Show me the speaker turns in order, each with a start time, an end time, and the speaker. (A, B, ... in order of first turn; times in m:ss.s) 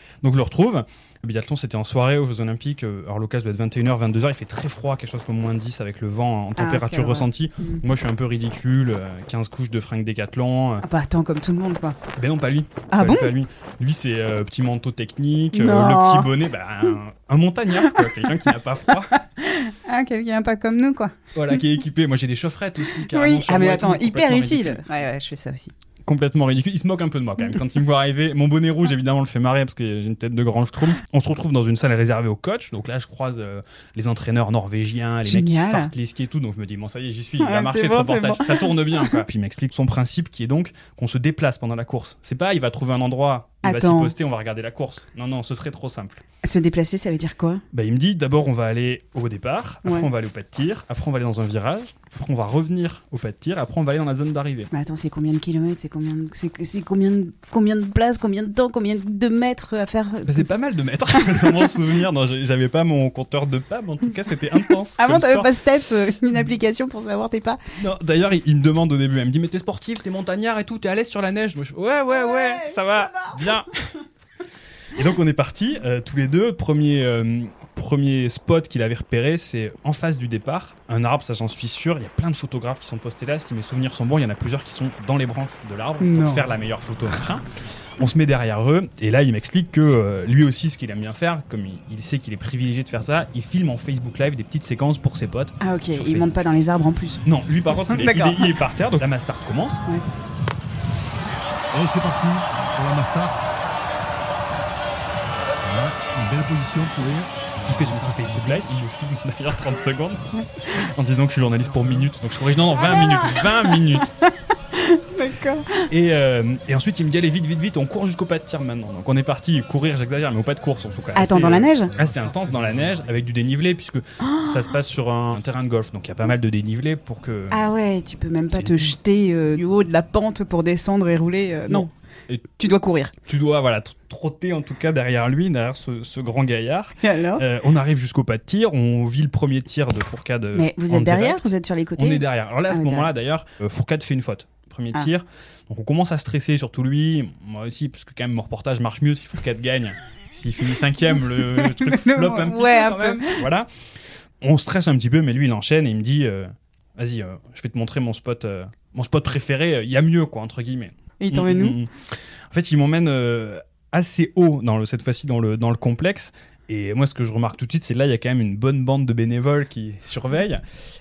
0:00.2-0:10.8 A
0:06.6-0:07.8 B
0:10.8-0:12.0 B
0:12.2-0:19.2 A
0:12.9-0:13.3 B
0:15.5-0:16.3 B
0:19.4-0:21.3 B
0:21.3-0:24.8 A
0:23.1-0:25.7 B
0:26.0-0:46.2 A
0:35.2-0:35.9 B
0:37.4-0:38.6 B
0:43.6-0:44.1 B
0:46.4-0:47.6 B
0:47.7-0:54.7 A
0:54.7-1:00.5 B
1:00.2-1:05.6 A
1:04.9-1:07.6 B
1:07.8-1:13.7 A
1:12.2-1:13.4 B
1:15.0-1:27.4 A
1:26.0-1:26.5 B
1:28.0-1:36.4 A
1:35.6-1:37.2 B
1:37.2-1:39.8 A
1:37.9-1:38.5 B
1:41.7-1:43.3 C
1:45.7-1:48.3 C
1:47.6-1:54.1 A
1:52.9-1:55.9 B
1:55.9-2:07.7 A
2:01.1-2:01.9 B
2:04.2-2:04.6 B
2:07.5-2:11.9 B
2:08.5-2:09.0 A
2:11.7-2:12.6 A
2:12.6-2:13.1 B
2:13.3-2:33.7 A
2:17.0-2:17.4 B
2:20.5-2:23.1 B
2:31.6-2:33.4 B
2:34.4-2:41.9 A
2:41.2-2:41.8 B
2:42.5-2:50.6 A